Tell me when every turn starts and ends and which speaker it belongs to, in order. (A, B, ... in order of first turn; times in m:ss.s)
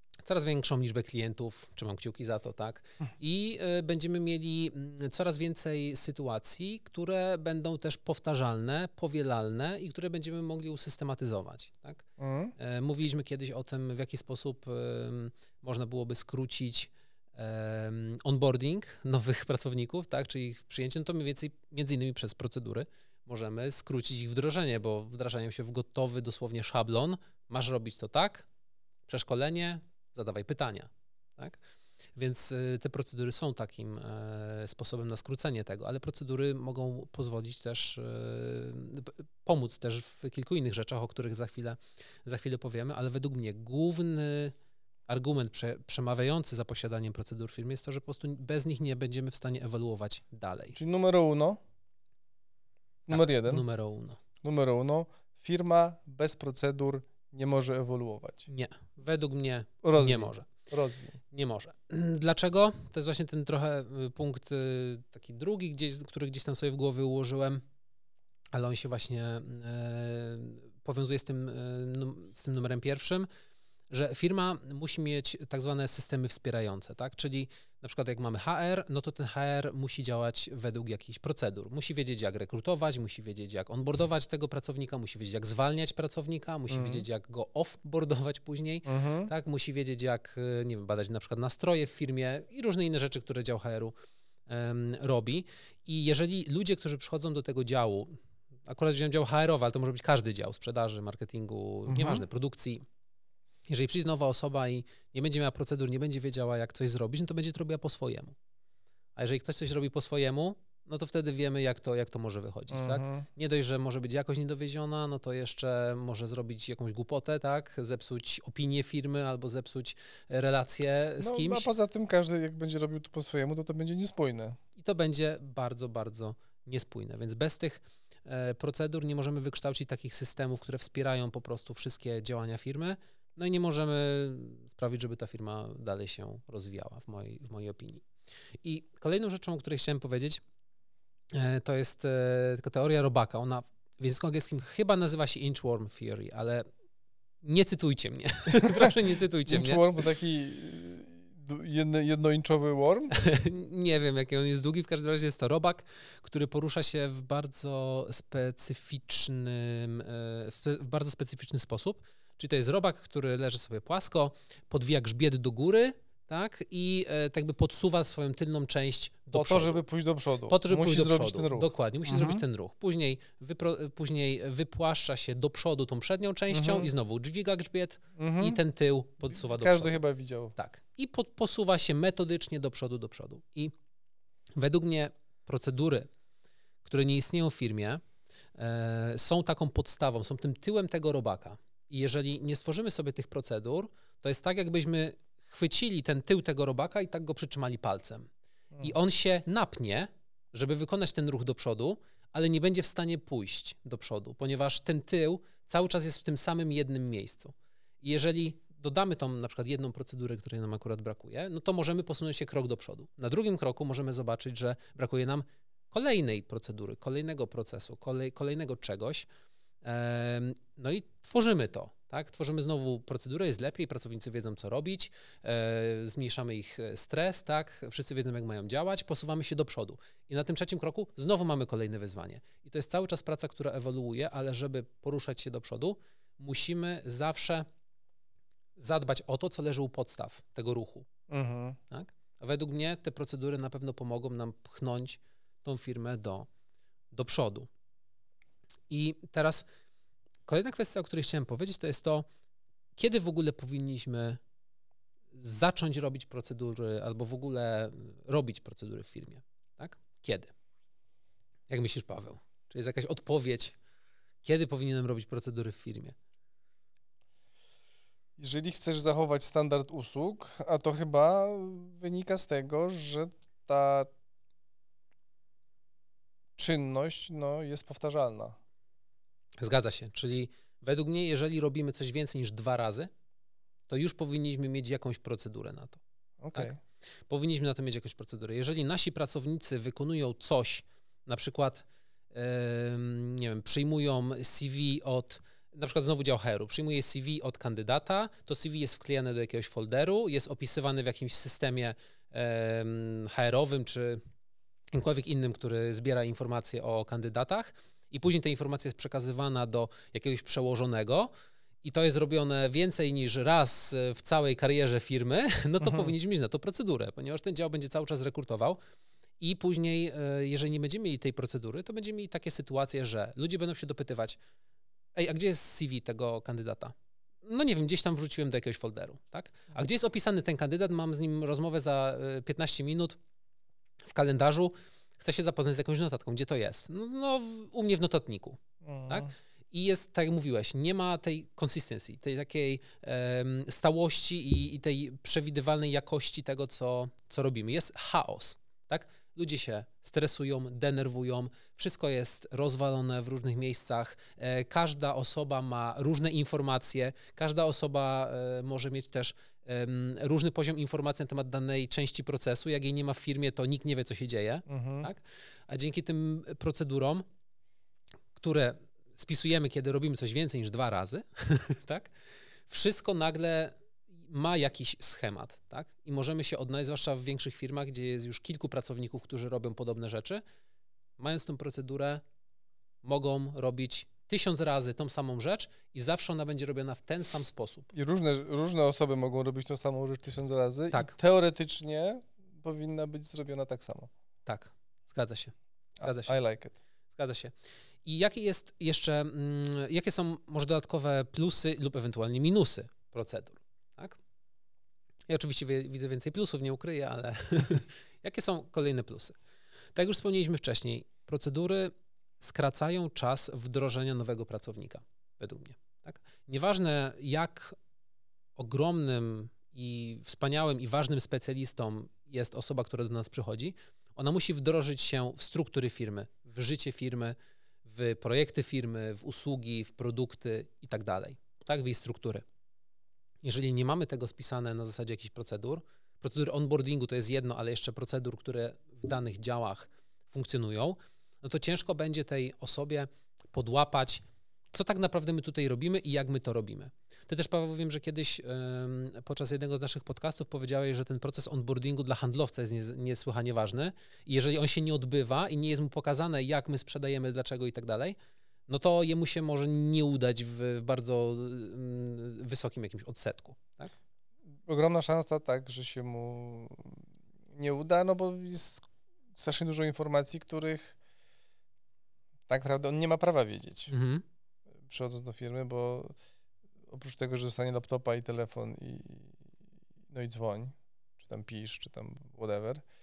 0:00.2-0:12.0 A
0:12.2-0:12.5 B
0:12.6-0:28.5 A
0:29.1-0:31.6 A
0:32.2-0:44.5 A
0:45.1-0:50.8 A
0:50.8-0:51.6 B
0:53.1-0:53.6 B
0:53.1-0:54.2 A
0:54.4-0:58.5 B
0:58.5-1:00.5 A
0:59.8-1:01.2 B
1:01.3-1:07.6 A
1:08.5-1:13.3 A
1:13.9-1:33.9 A
1:26.7-1:27.1 B
1:28.9-1:29.3 B
1:34.5-1:38.1 A
1:38.7-1:42.8 A
1:41.9-1:42.2 B
1:43.7-1:48.4 A
1:49.2-2:01.7 A
1:52.7-1:53.3 B
2:01.2-2:04.6 B
2:04.8-2:18.1 A
2:18.6-2:20.4 A
2:21.3-2:26.7 A
2:27.4-2:29.8 A
2:28.6-2:28.9 B
2:29.4-2:33.2 B
2:33.1-2:49.8 A
2:49.3-2:52.4 B
2:50.5-3:00.0 A
2:56.5-2:56.9 B
2:58.2-2:58.6 B
2:59.3-3:00.6 B
3:00.6-3:03.7 A
3:04.6-3:06.1 A
3:06.8-3:08.0 A
3:08.6-3:18.3 A
3:18.8-3:39.3 A
3:39.8-3:57.7 A
3:58.8-4:01.1 A
4:01.3-4:01.8 B
4:01.9-4:06.5 A
4:07.1-4:07.7 A
4:08.9-4:09.7 A
4:10.5-4:12.3 A
4:13.0-4:14.4 A
4:15.3-4:20.5 A
4:21.7-4:23.8 A
4:24.4-4:26.2 A
4:28.4-4:34.1 B
4:36.6-4:38.6 B
4:39.6-4:43.1 A
4:43.9-4:46.0 A
4:46.4-4:46.8 B
4:47.3-5:04.2 A
5:04.9-5:11.3 A
5:11.8-5:18.8 A
5:15.8-5:16.1 B
5:19.4-5:24.4 A
5:25.2-5:33.2 A
5:34.1-6:07.2 A
5:38.8-5:39.3 B
6:04.7-6:05.1 B
6:08.4-6:12.1 A
6:12.7-6:20.4 A
6:21.2-6:22.2 A
6:23.0-6:27.9 A
6:27.9-6:34.1 B
6:34.5-6:36.3 A
6:36.0-6:36.8 B
6:37.1-6:37.5 A
6:38.0-6:44.2 A
6:45.3-6:49.4 A
6:50.0-6:57.8 A
6:58.6-7:12.4 A
7:13.4-7:38.2 A
7:38.7-7:43.9 A
7:44.7-7:47.0 B
7:47.5-7:51.0 B
7:52.5-7:53.9 B
7:53.9-7:54.2 A
7:54.8-7:56.2 B
7:56.9-7:59.4 B
8:00.1-8:02.9 B